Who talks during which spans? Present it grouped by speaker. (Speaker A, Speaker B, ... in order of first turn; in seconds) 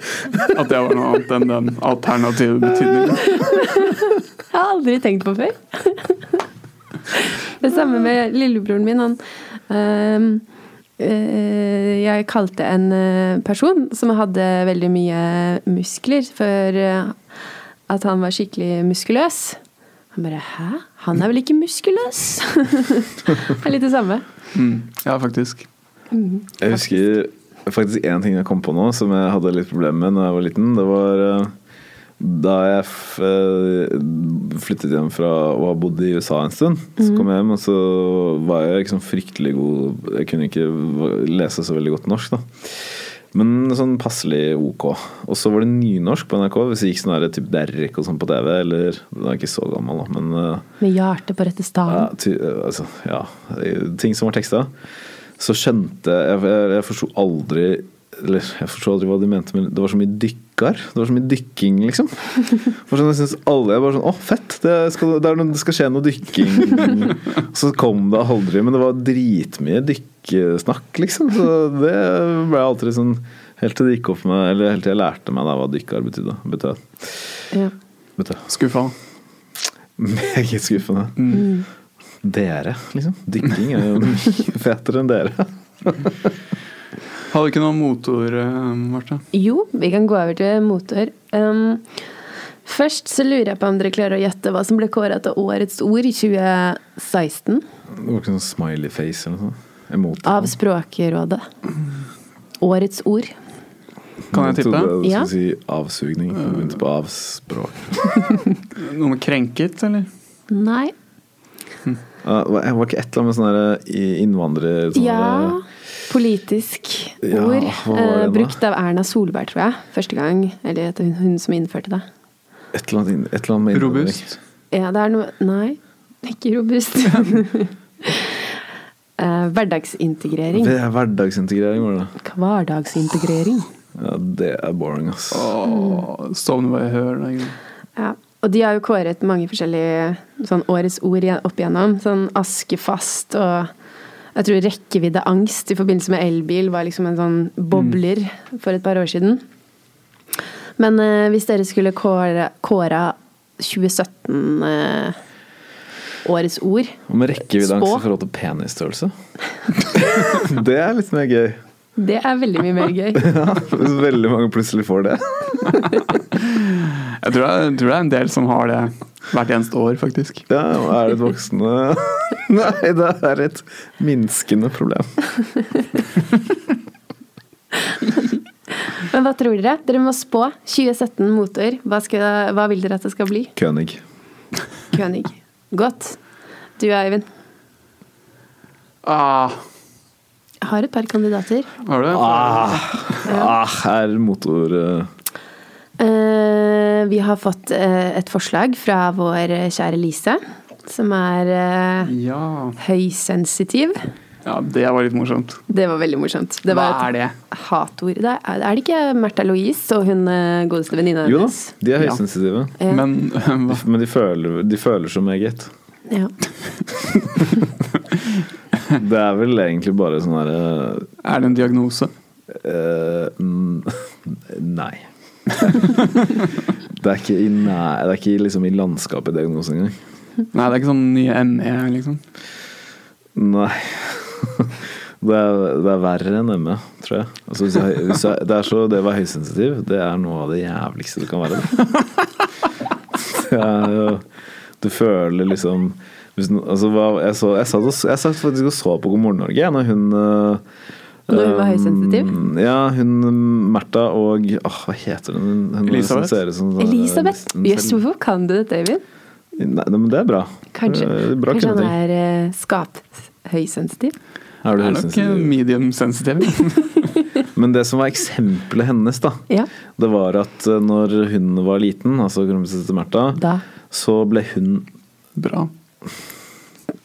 Speaker A: 0.3-3.6, 24.5-25.7, 78.5-79.0, 81.2-81.5, 87.3-89.2, 104.3-105.0, 108.8-110.1, 123.7-124.4, 135.3-137.6, 166.3-170.4, 189.0-189.6, 191.8-193.3, 202.1-202.8, 204.4-205.6, 206.7-207.4, 212.9-213.8, 221.2-222.1, 230.5-232.2, 255.9-256.4, 264.8-267.2, 275.4-275.7
Speaker B: 3.3-6.4, 7.1-10.4, 11.0-17.2, 17.9-19.6, 20.1-24.2, 26.1-26.8, 50.8-52.1, 81.3-81.7, 89.3-91.9, 92.7-97.6, 100.2-101.5, 102.6-103.3, 105.0-105.3, 110.5-110.9, 114.9-122.1, 124.7-128.4, 129.2-130.8, 132.2-133.7, 135.7-136.0, 138.0-143.7, 144.3-149.4, 150.8-155.2, 156.2-158.0, 162.0-163.3, 178.9-183.5, 184.9-186.2, 186.8-187.3, 190.6-191.7, 193.3-193.5, 196.0-202.1, 202.8-204.0, 205.7-211.7, 212.8-213.1, 251.3-252.4, 256.8-259.0, 260.7-264.1, 273.4-273.6
Speaker C: 26.6-31.5, 32.2-50.6, 51.9-54.7, 55.4-77.4, 78.2-78.5, 80.0-81.3, 82.2-86.3, 97.9-100.5, 104.3-108.2, 112.2-115.6, 117.2-118.6, 122.7-124.2, 130.5-132.2, 134.0-135.5, 157.1-159.1, 159.8-161.6, 163.2-165.8, 170.5-175.1, 183.6-184.0, 192.1-195.1, 211.2-212.8, 213.7-215.7, 218.9-221.1, 222.5-226.0, 226.9-230.0, 233.3-241.9, 243.1-244.3, 244.8-250.6, 251.3-258.0, 259.6-261.9, 264.6-265.6, 267.5-269.4, 270.0-274.9